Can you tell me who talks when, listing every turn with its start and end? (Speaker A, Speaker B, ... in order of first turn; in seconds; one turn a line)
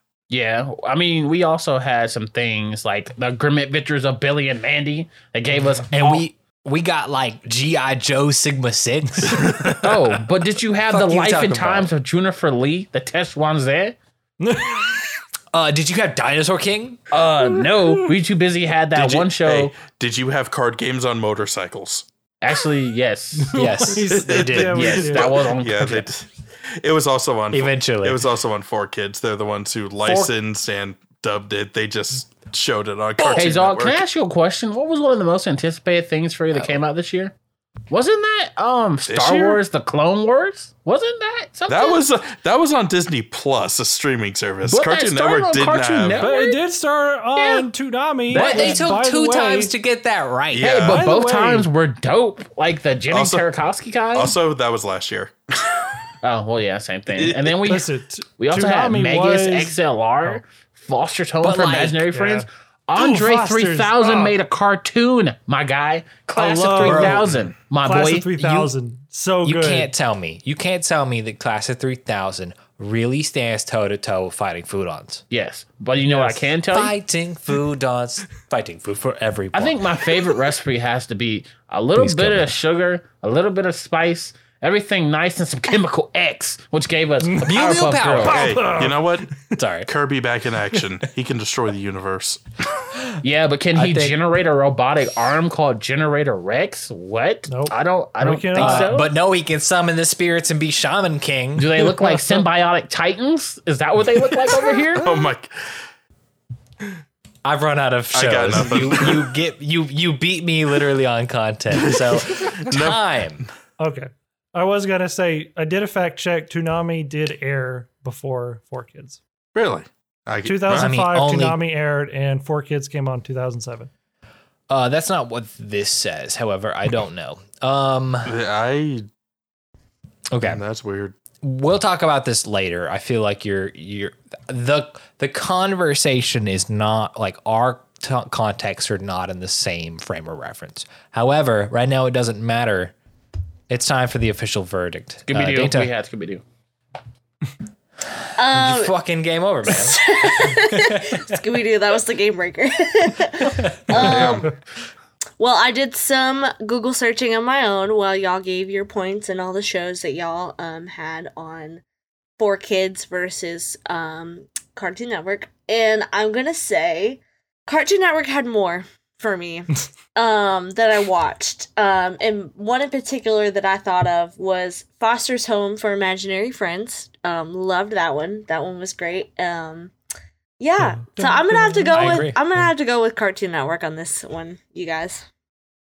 Speaker A: 0.3-6.2
Speaker B: 5.9-10.0
Speaker C: 9.3-9.8
Speaker A: 9.8-14.0
Speaker B: 10.9-11.9
Speaker D: 14.4-15.0
Speaker B: 15.5-17.0
Speaker A: 17.1-19.8
Speaker C: 18.9-22.1
Speaker A: 22.4-23.6
Speaker D: 23.5-25.4
Speaker B: 23.5-25.1
Speaker C: 24.1-26.3
Speaker A: 24.6-26.1
Speaker C: 26.8-34.0
Speaker B: 27.5-28.2
Speaker A: 33.3-37.3
Speaker A: 37.9-42.0
Speaker C: 39.1-39.6
Speaker C: 41.7-46.3
Speaker A: 44.7-46.6
Speaker D: 46.2-49.7
Speaker A: 47.4-47.7
Speaker A: 48.3-49.0
Speaker B: 48.3-50.8
Speaker C: 50.5-51.1
Speaker A: 50.6-54.4
Speaker D: 50.9-51.7
Speaker C: 53.1-53.5
Speaker C: 54.1-55.9
Speaker A: 56.2-68.4
Speaker C: 57.1-57.6
Speaker D: 57.7-60.4
Speaker B: 61.4-62.1
Speaker D: 62.1-64.4
Speaker D: 66.4-67.3
Speaker B: 66.8-67.3
Speaker D: 67.8-69.9
Speaker B: 68.4-68.7
Speaker B: 69.4-75.2
Speaker A: 75.3-76.9
Speaker D: 76.1-76.5
Speaker B: 76.7-80.0
Speaker A: 79.5-88.6
Speaker B: 82.0-82.5
Speaker D: 87.2-87.5
Speaker B: 87.4-88.5
Speaker C: 88.2-89.3
Speaker D: 88.4-89.5
Speaker B: 89.6-89.9
Speaker C: 89.9-92.4
Speaker A: 93.2-99.1
Speaker B: 93.7-94.2
Speaker D: 97.5-99.0
Speaker B: 98.5-101.9
Speaker A: 101.6-105.3
Speaker D: 102.1-102.4
Speaker C: 105.0-105.5
Speaker B: 107.4-113.5
Speaker C: 108.1-109.3
Speaker C: 111.8-113.0
Speaker D: 113.8-119.2
Speaker C: 119.5-120.9
Speaker D: 120.5-123.9
Speaker B: 120.7-121.6
Speaker B: 124.7-128.3
Speaker C: 128.3-129.1
Speaker B: 130.3-130.6
Speaker C: 130.4-131.2
Speaker B: 131.4-142.9
Speaker B: 143.7-145.9
Speaker A: 145.3-146.4
Speaker E: 148.4-148.9
Speaker B: 148.5-151.2
Speaker E: 149.7-154.5
Speaker C: 153.9-154.5
Speaker E: 155.4-161.8
Speaker E: 162.4-179.9
Speaker E: 180.6-185.2
Speaker D: 180.8-182.3
Speaker B: 181.9-182.4